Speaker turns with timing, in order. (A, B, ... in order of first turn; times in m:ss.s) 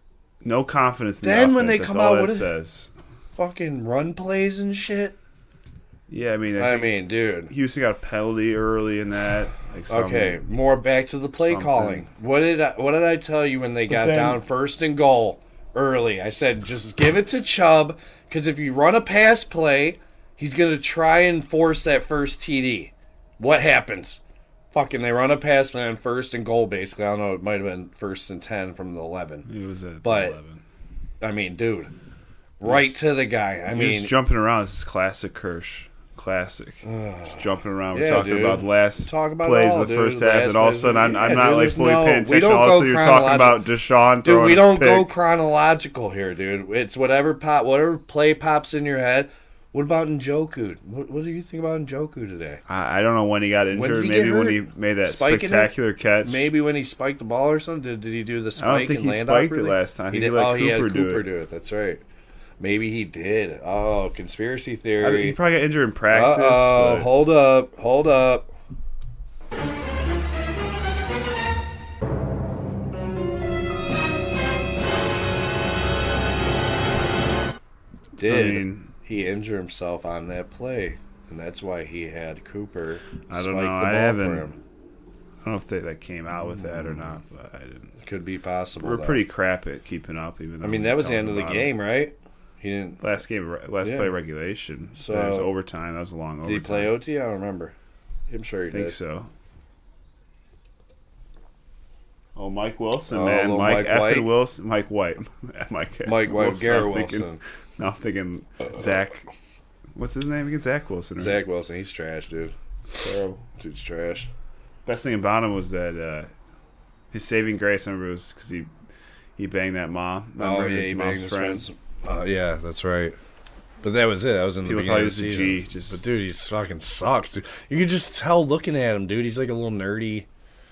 0:00.4-0:02.9 A
0:01.2-0:02.5 B
0:03.4-0:05.2 B
0:06.1-0:10.4 A
0:06.6-0:07.5 B
0:09.9-0:24.2 B
0:11.4-0:12.0 A
0:13.9-0:14.4 A
0:24.7-0:29.5 B
0:29.4-0:30.6 A
0:30.0-0:30.4 B
0:31.2-0:31.9 B
0:32.6-0:34.1 B
0:32.6-0:33.0 A
0:33.7-0:45.1 A
0:36.8-0:43.7 B
0:44.2-0:52.6 B
0:52.7-0:56.5 A
0:53.7-1:02.0 B
0:58.6-1:01.2 A
1:02.6-1:05.4 B
1:05.0-1:07.1 A
1:06.1-1:08.5 B
1:18.2-1:24.6 B
1:18.2-1:18.9 A
1:23.3-1:24.5 A
1:25.4-1:27.9 A
1:26.5-1:27.1 B
1:28.0-1:29.2 B
1:28.8-1:31.7 A
1:30.6-1:33.0 B
1:33.0-1:37.0 A
1:33.8-1:34.1 B
1:35.0-1:35.5 B
1:36.4-1:37.7 B
1:38.3-1:39.0 B
1:38.6-1:39.3 A
1:42.4-1:49.3 A
1:43.1-1:44.3 B
1:46.0-1:47.4 B
1:50.0-1:51.4 A
1:51.2-1:52.5 B
1:53.0-1:53.4 A
1:53.6-1:54.3 B
1:54.8-1:56.3 A
1:57.1-1:58.7 A
1:59.4-2:01.7 A
2:00.4-2:03.2 B
2:03.8-2:10.3 B
2:04.6-2:06.0 A